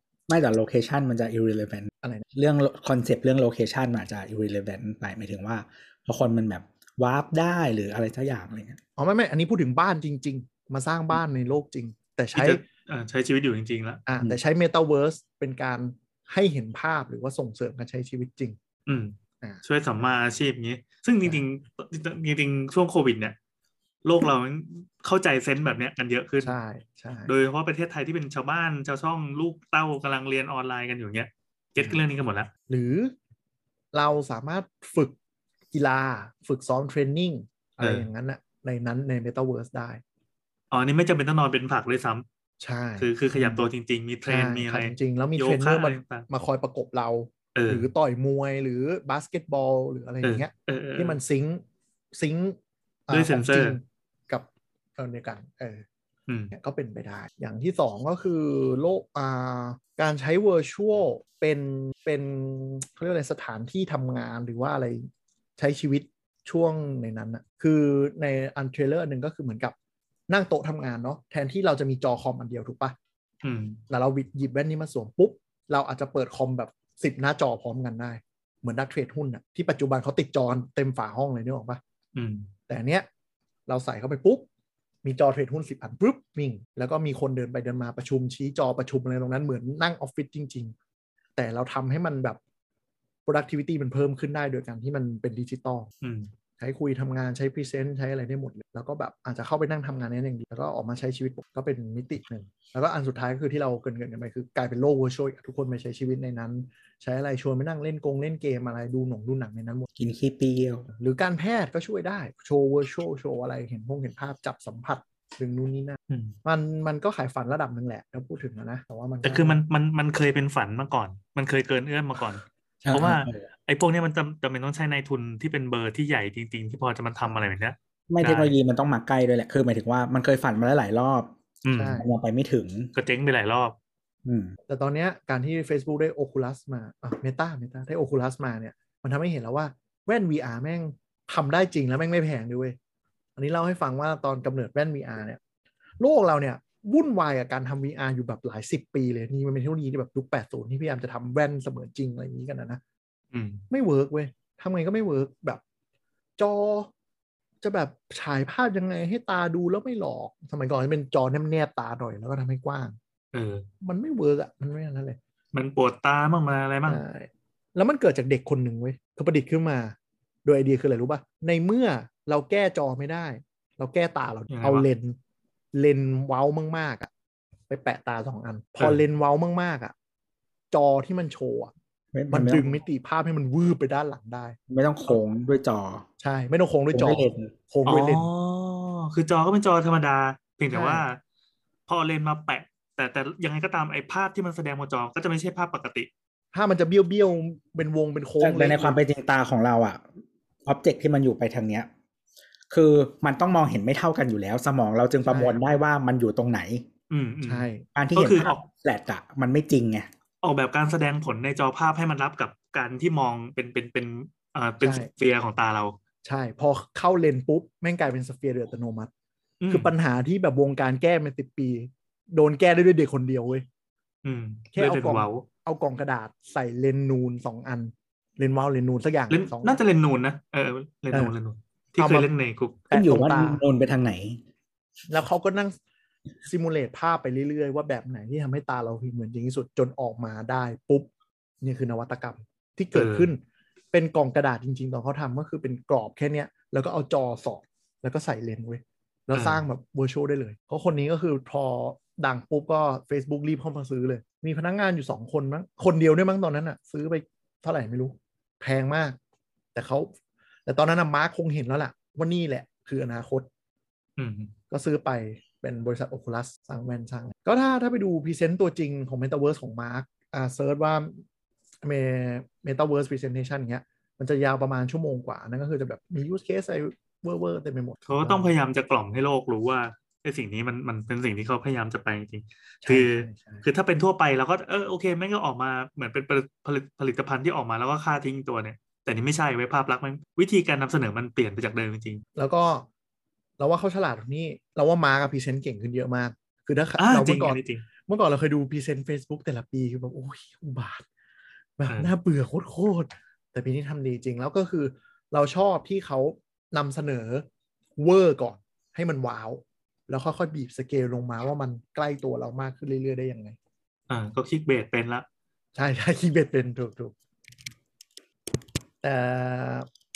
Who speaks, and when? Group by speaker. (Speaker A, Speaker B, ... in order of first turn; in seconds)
Speaker A: 0.3-8.8, 110.0-110.9, 122.9-123.5, 128.1-131.3, 132.0-132.9, 134.3-134.6, 182.1-182.7, 184.7-186.1, 186.9-187.5, 198.4-200.0, 200.7-201.9, 202.7-206.9, 207.9-210.1, 232.9-234.4
Speaker B: 9.0-12.6, 14.1-18.6, 26.4-27.3, 32.7-33.1, 33.9-35.1, 35.7-40.0, 42.6-43.7, 44.3-52.6, 53.1-55.8, 56.5-69.7, 70.3-73.0, 73.9-81.8, 82.7-83.1, 83.7-84.5, 85.0-90.7, 91.4-92.4, 93.3-95.9, 96.6-109.9, 110.9-119.6, 122.9-123.2, 131.8-132.1, 134.7-142.8, 143.4-145.4, 146.0-152.8, 153.7-155.6, 156.4-156.9, 157.6-163.0, 163.8-165.2, 166.9-175.2, 175.7-177.1, 177.7-179.9, 180.7-181.7, 182.3-184.6, 186.2-188.3, 190.7-191.1, 196.5-199.0, 205.3-205.6, 207.4-207.8, 214.8-215.1, 216.2-219.1, 219.7-223.7, 224.7-229.8, 232.0-232.3, 232.9-233.6, 235.1-235.8, 236.4-241.1, 241.6-243.4, 243.9-259.2, 259.7-260.1, 260.7-263.5, 264.7-271.2, 271.8-278.5, 282.9-283.7, 292.4-292.9, 293.6-301.1, 301.8-313.6, 315.8-317.1, 319.0-319.9
Speaker C: 12.3-14.0, 18.9-23.4, 24.0-26.6, 27.3-32.5, 37.8-38.1, 40.7-42.2, 43.0-46.3, 47.5-47.9, 50.2-51.2, 53.1-53.8, 56.3-56.5, 73.4-73.8, 82.2-82.5, 96.0-96.3, 119.2-128.5, 131.7-132.0, 132.9-133.8, 153.3-153.6, 163.3-163.7, 165.5-167.0, 174.5-174.9, 187.9-191.2, 191.9-196.1, 207.1-208.6, 210.4-216.0, 219.6-219.9, 224.2-225.5, 229.3-232.8, 242.9-243.3, 249.3-249.6, 264.2-264.5, 278.1-292.2, 297.0-297.9, 314.1-315.3